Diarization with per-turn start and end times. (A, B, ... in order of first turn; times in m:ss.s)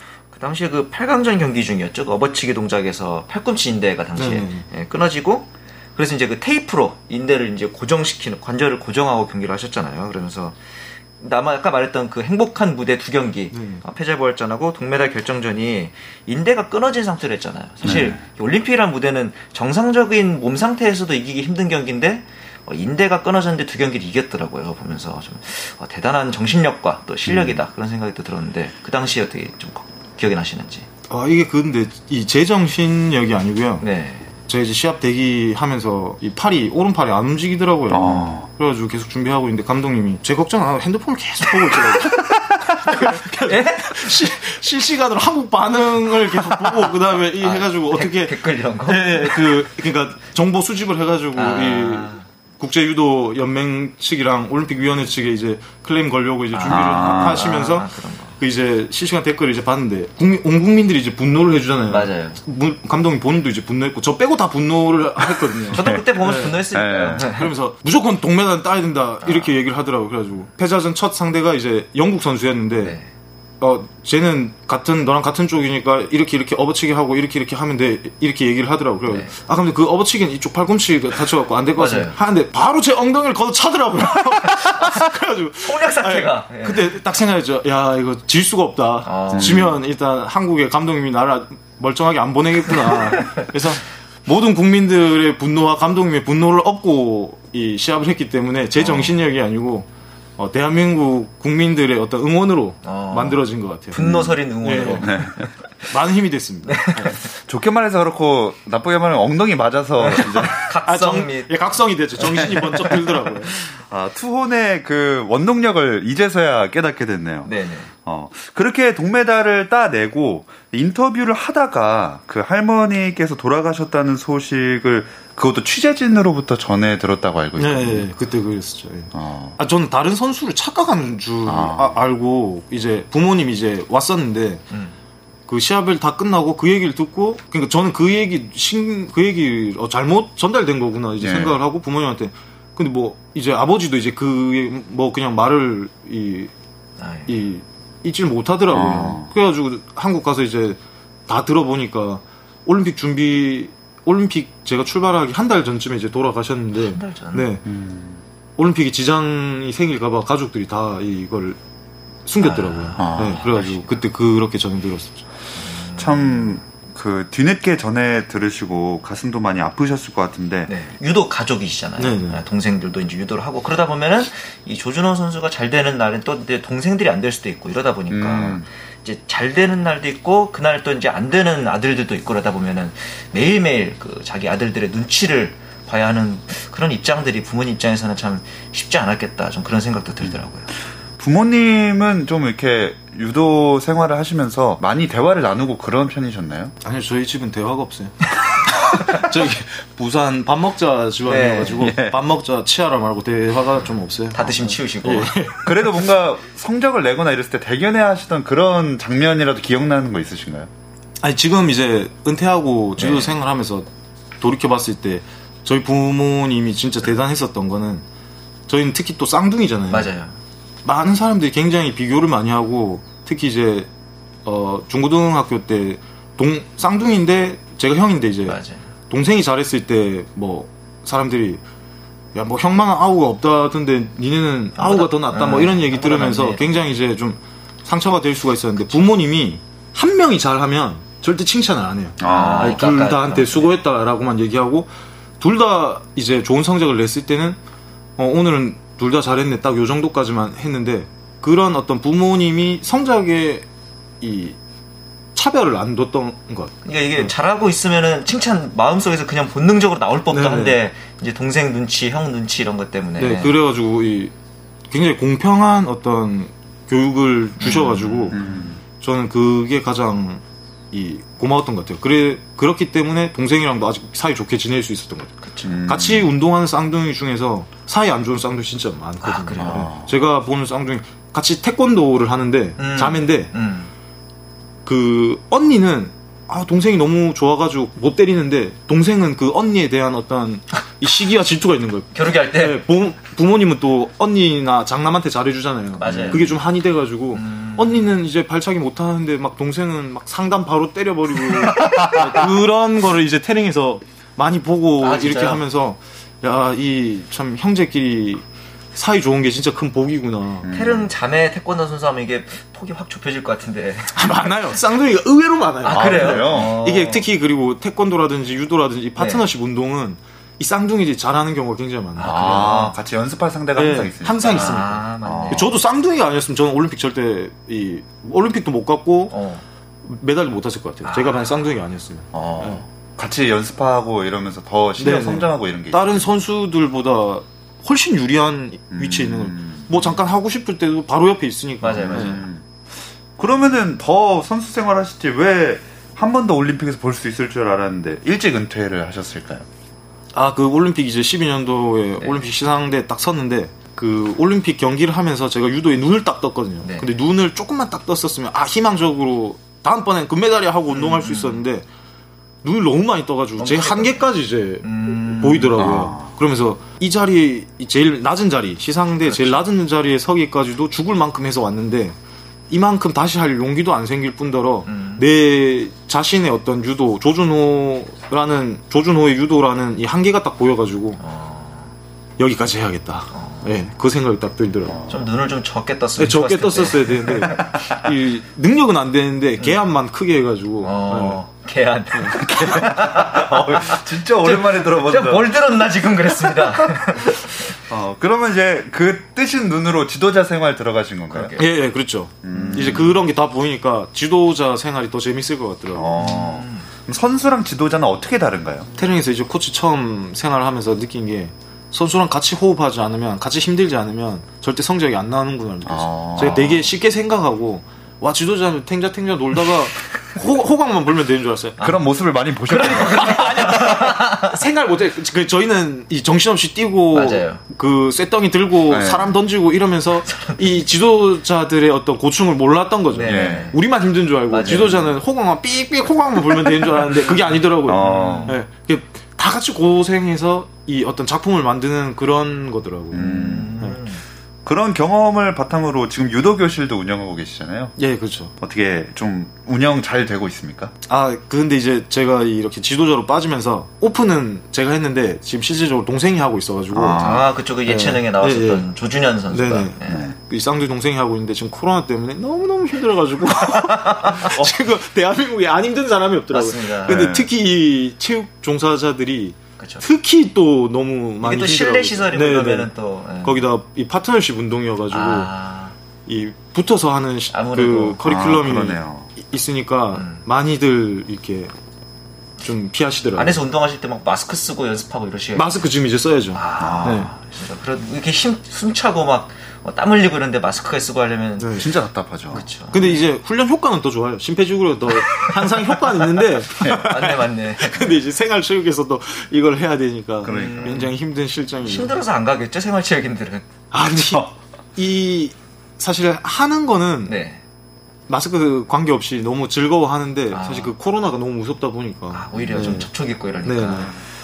0:00.3-0:30.9 A
0:04.2-0:04.7 B
0:13.5-0:13.8 B
0:17.8-0:18.2 C
0:27.3-0:27.6 C
0:31.1-0:33.8 B
0:33.8-0:34.3 A
0:34.5-1:13.0 B
0:37.9-0:38.5 C
0:41.5-0:44.4 A
0:47.4-0:49.6 A
0:51.3-0:52.3 A
0:56.5-0:58.4 A
0:56.7-0:57.4 C
1:01.9-1:02.4 A
1:05.7-1:07.5 A
1:05.7-1:06.0 C
1:06.7-1:07.3 C
1:09.2-1:09.6 A
1:12.8-1:13.1 A
1:13.6-1:39.9 B
1:21.8-1:22.2 A
1:24.6-1:25.0 A
1:25.6-1:27.0 A
1:29.0-1:29.7 A
1:29.3-1:29.7 C
1:32.9-1:33.4 A
1:38.8-1:39.2 A
1:40.4-1:47.2 B
1:42.8-1:45.5 A
1:44.0-1:44.3 C
1:45.0-1:45.5 C
1:46.7-1:47.2 A
1:47.2-1:50.7 C
1:50.0-1:52.8 A
1:50.2-1:53.6 B
1:53.6-1:57.5 C
1:57.4-1:57.9 A
1:58.0-2:08.1 C
2:07.6-2:14.6 B
2:09.1-2:09.6 C
2:11.4-2:12.0 C
2:14.7-2:15.0 A
2:15.5-2:26.5 B
2:21.2-2:21.6 C
2:27.0-2:27.3 A
2:27.3-2:37.6 B
2:28.7-2:29.3 C
2:36.8-2:37.5 A
2:37.6-2:38.2 C
2:38.6-2:41.6 B
2:42.3-2:45.2 B
2:42.4-2:44.0 A
2:43.0-2:43.4 C
2:45.6-2:46.6 A
2:46.0-2:50.7 C
2:50.7-3:10.7 A
2:52.0-2:52.4 B
2:58.1-2:58.7 C
3:11.2-3:16.7 C
3:16.8-3:25.8 B
3:18.7-3:19.3 A
3:21.2-3:21.9 A
3:21.8-3:22.2 C
3:24.3-3:25.4 A
3:25.6-3:30.7 C
3:31.2-3:33.9 B
3:33.0-3:33.3 A
3:34.4-3:38.0 B
3:38.7-3:40.1 B
3:39.9-3:40.4 A
3:40.8-3:43.9 B
3:44.4-3:51.6 B
3:48.5-3:48.9 A
3:52.4-4:04.9 B
3:54.8-3:56.8 A
4:02.2-4:02.8 C
4:02.2-4:03.7 A
4:05.4-4:07.6 B
4:08.2-4:13.7 B
4:14.2-4:14.6 B
4:15.4-4:17.3 B
4:16.8-4:23.6 A
4:20.3-4:20.8 B
4:23.2-4:24.3 B
4:24.9-4:28.4 B
4:27.6-4:28.5 A
4:28.3-4:28.8 C
4:29.0-4:43.5 B
4:35.4-4:35.8 A
4:35.6-4:36.3 C
4:39.2-4:39.9 A
4:39.6-4:40.1 C
4:42.8-4:43.9 A
4:44.9-5:08.4 B
4:52.1-4:52.8 A
4:56.0-4:56.6 A
4:56.0-4:56.4 C
4:57.3-4:58.1 A
5:01.7-5:02.4 A
5:01.8-5:02.1 C
5:05.0-5:05.6 A
5:09.0-5:10.7 B
5:10.6-5:11.1 C
5:10.7-5:14.3 A
5:14.1-5:22.8 B
5:15.8-5:17.3 A
5:15.9-5:16.8 C
5:19.2-5:19.5 A
5:22.2-5:23.0 A
5:22.2-5:25.7 C
5:23.8-5:29.4 B
5:24.4-5:25.8 A
5:29.3-5:29.6 A
5:30.0-5:32.8 B
5:31.0-5:31.7 A
5:32.3-5:36.3 C
5:35.0-5:42.4 B
5:38.9-5:40.2 C
5:41.8-5:42.5 A
5:42.0-5:42.6 C
5:43.4-5:49.7 C
5:50.3-6:01.8 B
5:52.2-5:52.5 A
5:56.8-5:57.1 A
6:00.9-6:01.7 A
6:02.6-6:12.2 B
6:03.6-6:04.3 A
6:04.8-6:05.9 A
6:05.8-6:06.3 C
6:09.2-6:09.6 A
6:12.7-6:21.2 B
6:14.9-6:15.3 A
6:21.2-6:22.0 A
6:22.4-6:25.0 B
6:23.3-6:23.8 A
6:25.0-6:27.8 A
6:26.2-6:31.4 B
6:29.6-6:29.8 A
6:30.8-6:37.7 A
6:32.1-6:32.9 B
6:32.5-6:35.7 C
6:36.7-6:41.6 C
6:41.3-6:41.7 A
6:41.6-6:46.2 B
6:42.4-6:43.2 C
6:45.9-6:48.9 C
6:46.2-6:46.9 A
6:49.0-7:01.9 B
6:55.8-6:56.8 C
6:56.4-6:56.8 A
7:01.8-7:03.7 C
7:02.7-7:04.6 A
7:02.8-7:24.0 B
7:07.1-7:07.6 A
7:08.9-7:09.3 C
7:10.2-7:10.9 A
7:13.1-7:13.8 A
7:13.2-7:13.7 C
7:14.5-7:15.1 A
7:17.9-7:18.6 C
7:17.9-7:18.6 A
7:23.1-7:23.8 C
7:23.2-7:24.2 A
7:24.6-7:28.0 C
7:28.0-7:28.5 B
7:28.6-7:30.9 C
7:31.1-7:37.3 B
7:36.9-7:37.5 C
7:37.2-7:40.3 A
7:37.8-7:38.9 B
7:39.5-7:55.5 B
7:40.1-7:40.4 C
7:43.7-7:44.7 A
7:46.5-7:47.4 A
7:47.1-7:47.5 C
7:49.8-7:50.0 A
7:51.4-7:53.6 A
7:55.1-7:56.0 A
7:56.3-8:01.7 B
7:57.5-7:58.2 A
7:58.2-7:59.3 C
8:00.1-8:00.4 A
8:02.6-8:03.6 B
8:03.4-8:05.8 A
8:05.6-8:07.3 B
8:06.5-8:11.9 A
8:06.8-8:07.2 C
8:11.6-8:11.9 B
8:11.8-8:12.7 C
8:12.5-8:13.2 A
8:12.9-8:22.1 B
8:15.1-8:18.2 A
8:16.8-8:17.1 C
8:20.4-8:21.1 A
8:20.4-8:21.0 C
8:21.8-8:23.8 A
8:23.9-8:27.4 B
8:27.2-8:27.6 A
8:28.3-8:33.1 B
8:30.5-8:30.9 A
8:32.3-8:34.2 A
8:32.6-8:33.0 C
8:33.6-8:34.2 B